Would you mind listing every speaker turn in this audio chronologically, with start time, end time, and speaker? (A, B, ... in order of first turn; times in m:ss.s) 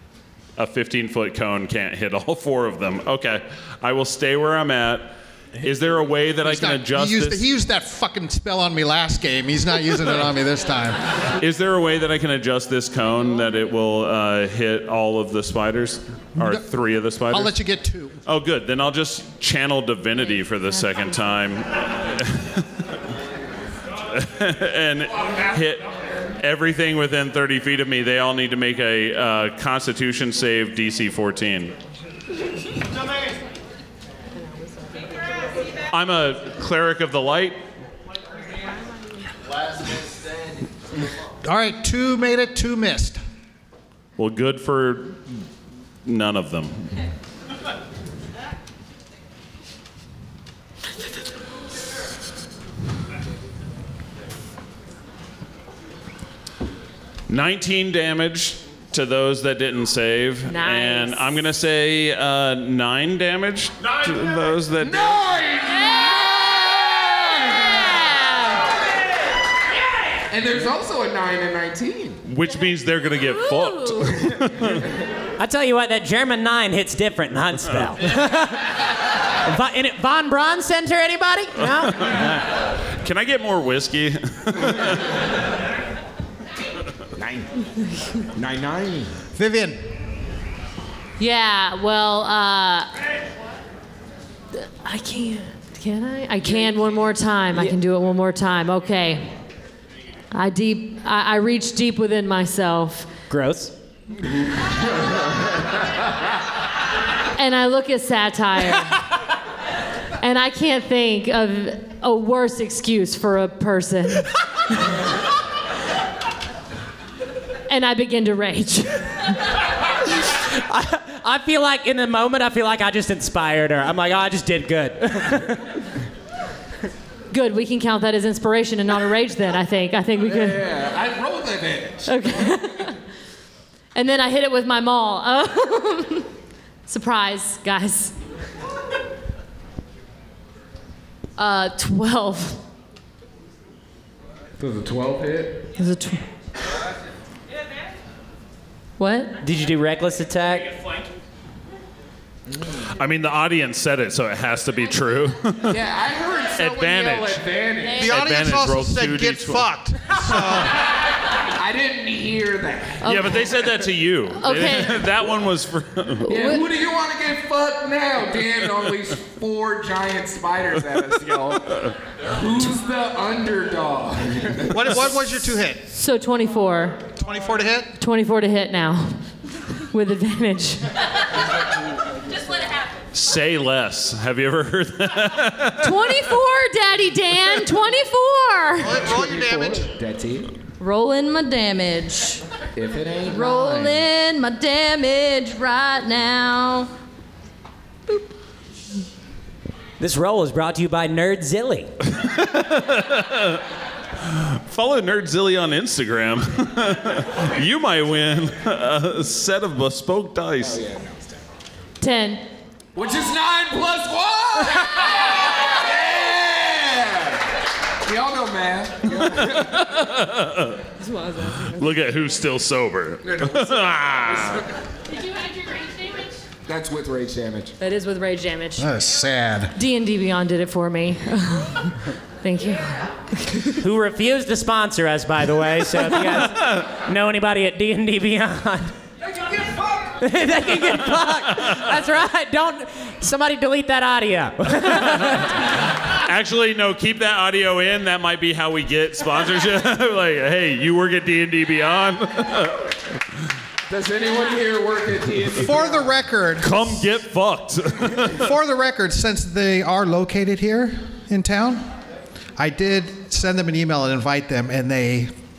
0:00.6-0:07.5 A
0:06.4-0:11.0 B
0:11.4-0:17.6 A
0:17.3-0:18.2 B
0:18.3-0:22.8 A
0:24.1-0:31.7 A
0:35.9-0:37.6 A
0:41.4-0:43.2 B
0:44.2-0:45.2 A
0:46.0-0:46.9 A
0:57.3-1:05.2 A
1:00.5-1:01.3 C
1:04.8-1:07.9 D
1:07.7-1:08.6 C
1:10.3-1:12.2 D
1:12.2-1:14.9 A
1:13.6-1:14.1 C
1:14.4-1:14.7 D
1:15.4-1:22.5 E
1:21.7-1:22.2 A
1:23.0-1:25.1 A
1:27.2-1:27.5 D
1:28.4-1:29.2 D
1:29.4-1:29.8 B
1:31.2-1:32.9 C
1:34.5-1:39.3 C
1:40.3-1:43.1 C
1:43.3-1:43.7 E
1:47.4-1:49.0 C
1:50.2-1:54.3 C
1:57.7-1:59.4 C
2:00.3-2:05.6 E
2:07.3-2:10.6 C
2:10.2-2:12.6 D
2:12.1-2:13.0 C
2:14.0-2:16.3 C
2:16.9-2:18.1 C
2:21.4-2:22.6 C
2:24.6-2:25.7 D
2:25.8-2:26.2 C
2:29.0-2:29.4 C
2:29.4-2:30.8 E
2:32.5-2:32.8 D
2:32.9-2:35.8 A
2:35.7-2:38.1 D
2:36.6-2:37.4 A
2:38.0-2:40.8 B
2:38.0-2:39.7 A
2:41.6-2:43.1 D
2:43.0-2:43.4 C
2:43.0-2:46.3 A
2:44.4-2:45.0 C
2:46.2-2:46.7 C
2:46.3-2:55.0 D
2:54.7-2:55.8 B
2:55.9-2:57.1 C
2:57.2-2:57.9 B
2:58.0-2:59.2 C
2:59.9-3:00.9 C
3:03.1-3:06.2 A
3:05.8-3:09.0 C
3:08.8-3:09.9 B
3:08.9-3:10.5 D
3:10.8-3:12.4 C
3:12.8-3:14.0 D
3:13.3-3:16.9 C
3:20.0-3:21.9 E
3:22.1-3:23.6 A
3:24.2-3:30.8 A
3:30.6-3:31.4 D
3:32.0-3:32.4 C
3:33.0-3:39.8 D
3:39.2-3:40.8 A
3:41.0-3:41.9 C
3:41.7-3:44.6 A
3:43.2-3:44.6 D
3:45.6-3:46.1 C
3:46.7-3:47.7 D
3:47.8-3:48.9 C
3:48.8-3:49.7 B
3:49.8-3:53.7 C
3:53.8-3:58.9 E
4:00.2-4:05.6 E
4:01.3-4:01.9 A
4:06.1-4:12.9 A
4:13.9-4:16.2 D
4:15.6-4:17.0 B
4:16.6-4:18.5 A
4:18.4-4:21.9 B
4:22.6-4:25.3 B